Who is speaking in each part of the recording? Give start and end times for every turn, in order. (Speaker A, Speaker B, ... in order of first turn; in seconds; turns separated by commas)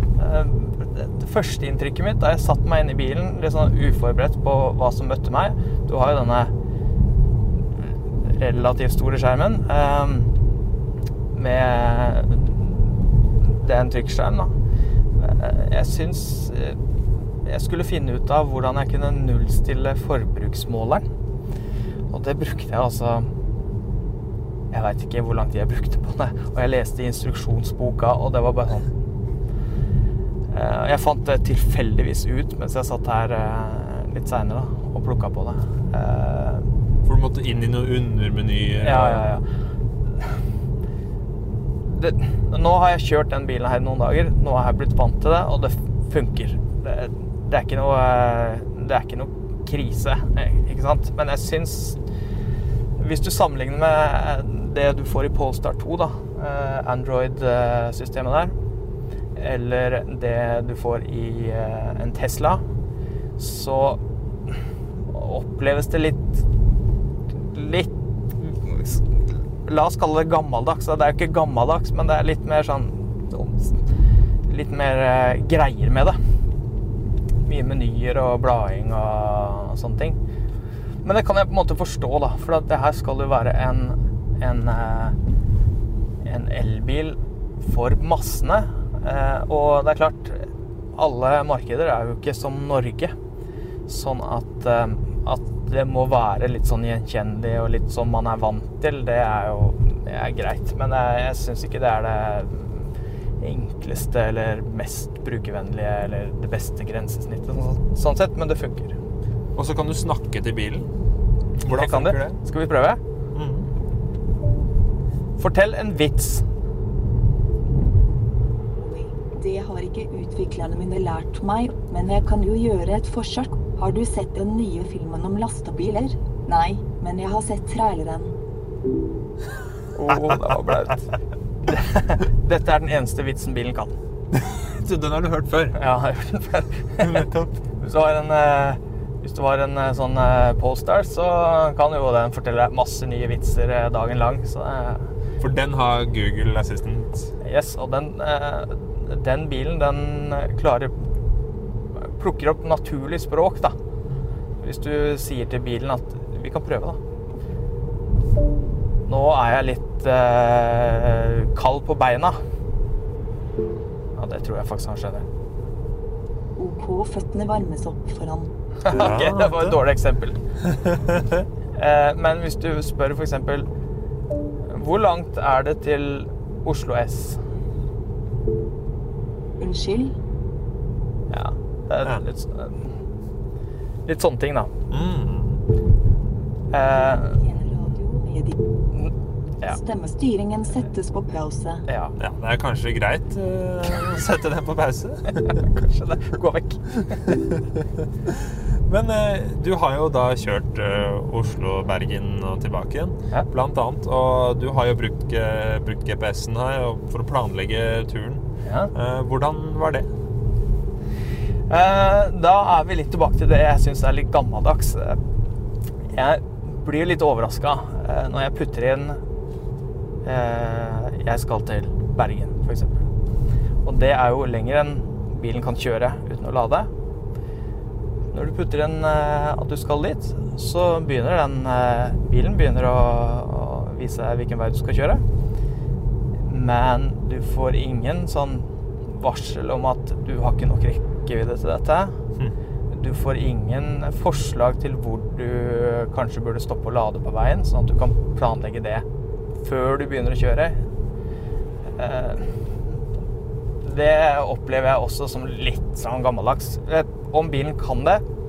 Speaker A: 0.1-6.5, Speaker A: 7.9-10.3, Speaker A: 11.3-14.5, Speaker A: 15.1-16.8, Speaker A: 17.4-21.1, Speaker A: 22.1-23.3, Speaker A: 24.7-28.9, Speaker A: 30.5-36.7, Speaker B: 37.0-39.4, Speaker A: 38.8-39.5, Speaker A: 41.8-52.0, Speaker A: 53.0-58.5, Speaker A: 59.4-62.6, Speaker A: 63.4-64.0, Speaker A: 65.0-66.5, Speaker A: 67.3-76.2, Speaker A: 77.4-80.2, Speaker A: 81.0-85.2, Speaker A: 86.2-93.1, Speaker A: 93.9-109.0, Speaker B: 109.5-110.9, Speaker B: 111.6-112.4, Speaker A: 111.7-113.0, Speaker B: 113.3-113.7, Speaker A: 115.4-116.5, Speaker C: 118.8-128.3, Speaker A: 129.9-131.0, Speaker A: 131.6-133.9, Speaker B: 134.3-135.9, Speaker A: 135.7-145.1, Speaker B: 137.0-137.6, Speaker B: 145.4-147.3, Speaker A: 147.4-150.9, Speaker A: 151.9-153.8, Speaker A: 154.6-157.0, Speaker A: 159.1-162.4, Speaker A: 164.1-165.2, Speaker C: 166.6-168.5, Speaker A: 168.8-170.4, Speaker B: 168.8-169.8, Speaker B: 170.8-171.4, Speaker A: 171.7-173.7, Speaker A: 174.6-177.4, Speaker C: 179.6-180.1, Speaker A: 181.3-182.9, Speaker A: 184.1-184.7, Speaker B: 184.9-185.6, Speaker A: 186.7-187.4, Speaker C: 187.1-188.5, Speaker A: 188.9-189.8, Speaker C: 189.6-191.8, Speaker A: 191.8-192.2, Speaker B: 192.2-195.7, Speaker A: 195.6-197.3, Speaker B: 197.3-197.6, Speaker B: 198.3-210.1, Speaker A: 208.6-208.9, Speaker A: 211.7-215.2, Speaker A: 216.1-219.2, Speaker A: 220.2-223.1, Speaker A: 223.8-226.9, Speaker A: 228.3-235.2, Speaker A: 236.4-242.2, Speaker A: 242.9-249.0, Speaker A: 249.6-250.8, Speaker A: 251.9-252.6, Speaker A: 253.8-258.2